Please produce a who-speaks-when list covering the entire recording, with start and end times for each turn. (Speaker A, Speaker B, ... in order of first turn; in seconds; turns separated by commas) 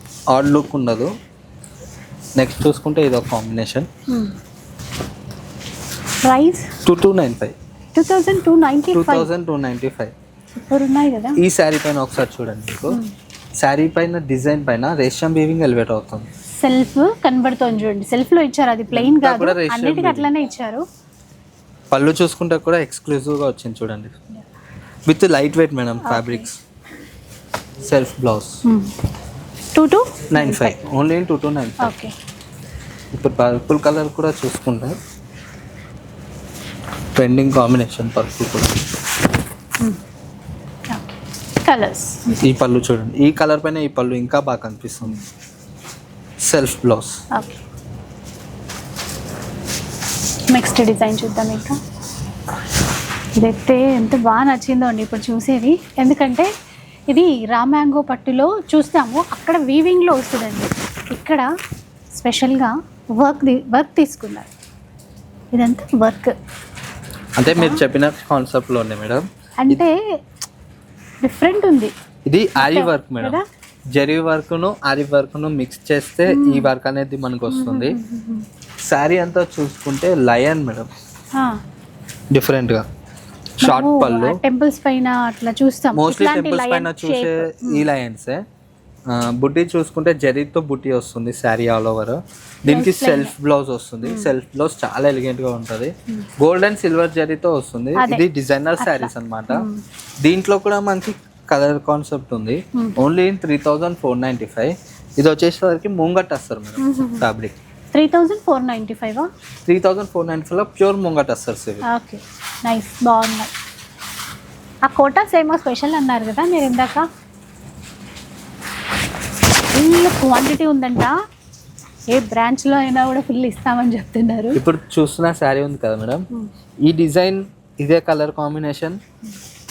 Speaker A: 0.3-1.1, Speaker A: 2.4-3.9, Speaker B: 4.1-4.3, Speaker B: 6.2-6.7, Speaker A: 6.8-7.5, Speaker B: 8.0-9.3, Speaker A: 8.9-10.1, Speaker B: 10.6-11.4, Speaker A: 11.4-13.0, Speaker A: 13.6-16.3, Speaker B: 16.6-20.8, Speaker A: 18.9-20.3, Speaker A: 21.9-24.1, Speaker A: 25.1-26.6, Speaker B: 26.0-26.5, Speaker A: 27.9-28.6, Speaker B: 28.6-28.9, Speaker B: 29.8-30.8, Speaker A: 30.3-31.9, Speaker B: 31.8-32.1, Speaker A: 33.1-35.0, Speaker A: 37.1-38.8, Speaker B: 40.9-42.4, Speaker A: 42.4-45.2, Speaker A: 46.5-47.2, Speaker B: 47.3-47.6, Speaker B: 50.5-51.8, Speaker B: 53.4-56.5, Speaker B: 57.1-61.5, Speaker B: 62.1-64.5, Speaker B: 65.5-66.3, Speaker A: 67.4-69.9, Speaker B: 67.5-67.8, Speaker B: 69.6-70.0, Speaker B: 71.2-71.9, Speaker A: 72.3-73.4, Speaker B: 72.6-73.4, Speaker A: 73.9-78.0, Speaker B: 76.3-76.7, Speaker B: 77.5-78.5, Speaker A: 78.9-80.9, Speaker A: 82.3-82.8, Speaker A: 83.6-84.4, Speaker B: 83.6-87.8, Speaker A: 86.0-88.4, Speaker A: 89.1-99.7, Speaker B: 92.7-93.3, Speaker B: 94.0-94.3, Speaker B: 98.0-98.2, Speaker B: 98.8-99.8, Speaker A: 100.2-107.5, Speaker B: 102.8-103.0, Speaker B: 106.8-107.3, Speaker B: 107.9-109.3, Speaker A: 109.7-111.8, Speaker B: 111.8-113.5, Speaker B: 114.9-117.0, Speaker B: 119.7-121.2, Speaker B: 122.1-124.6, Speaker A: 124.5-126.3, Speaker A: 126.8-129.0